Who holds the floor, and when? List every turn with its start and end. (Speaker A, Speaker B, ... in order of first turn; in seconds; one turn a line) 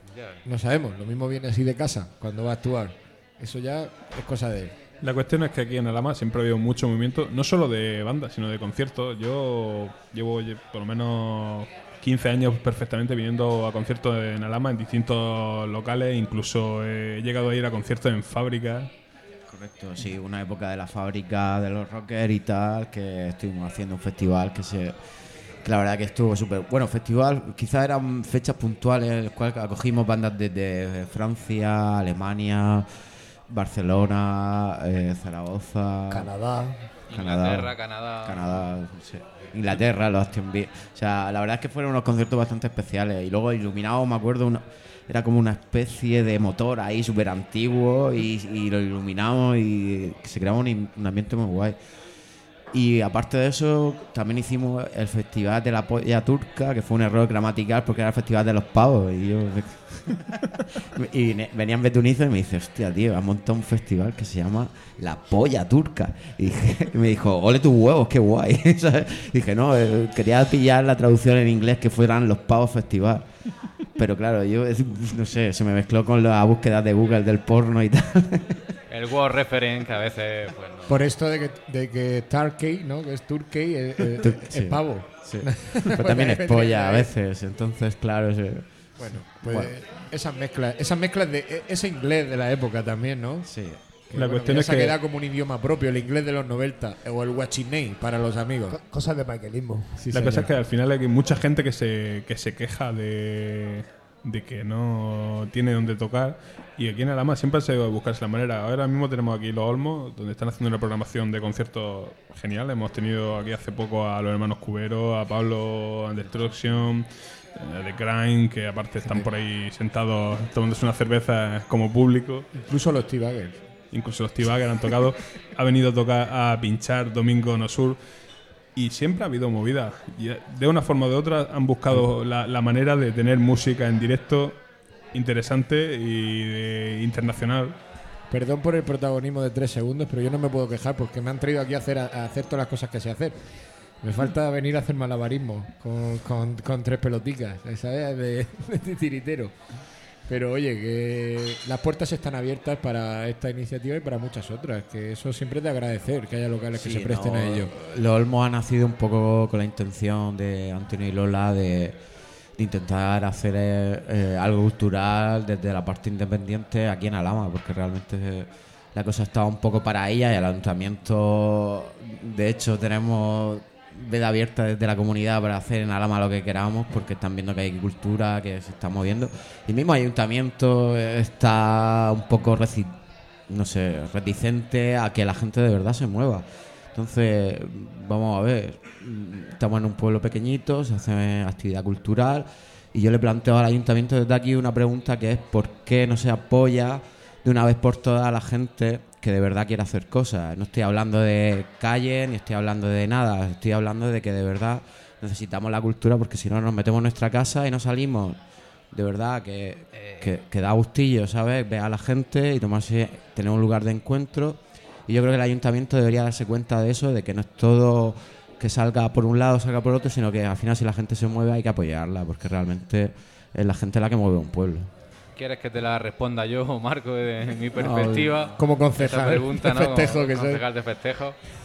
Speaker A: 0.5-4.7
Speaker B: 5.0-18.9
Speaker C: 19.5-25.0
Speaker C: 25.6-32.9
Speaker C: 33.5-36.3
Speaker D: 36.1-36.9
Speaker E: 37.1-38.4
Speaker C: 37.1-51.8
Speaker C: 52.7-60.4
Speaker C: 61.0-78.6
Speaker E: 78.9-81.0
Speaker A: 80.9-87.1
Speaker C: 84.2-89.7
Speaker A: 89.0-98.7
Speaker C: 93.5-93.8
Speaker B: 94.1-95.0
Speaker D: 98.7-100.0
Speaker A: 100.0-100.5
Speaker B: 100.1-122.5
Speaker A: 119.0-119.3
Speaker A: 122.6-123.6
Speaker B: 123.9-128.0
Speaker B: 128.7-137.7
Speaker A: 138.3-143.4
Speaker A: 144.0-149.5
Speaker A: 150.3-157.7
Speaker C: 156.8-162.0
Speaker C: 162.5-208.4
Speaker C: 208.9-224.9
Speaker E: 209.9-210.3
Speaker E: 225.4-231.4
Speaker C: 227.8-228.5
Speaker A: 228.6-230.6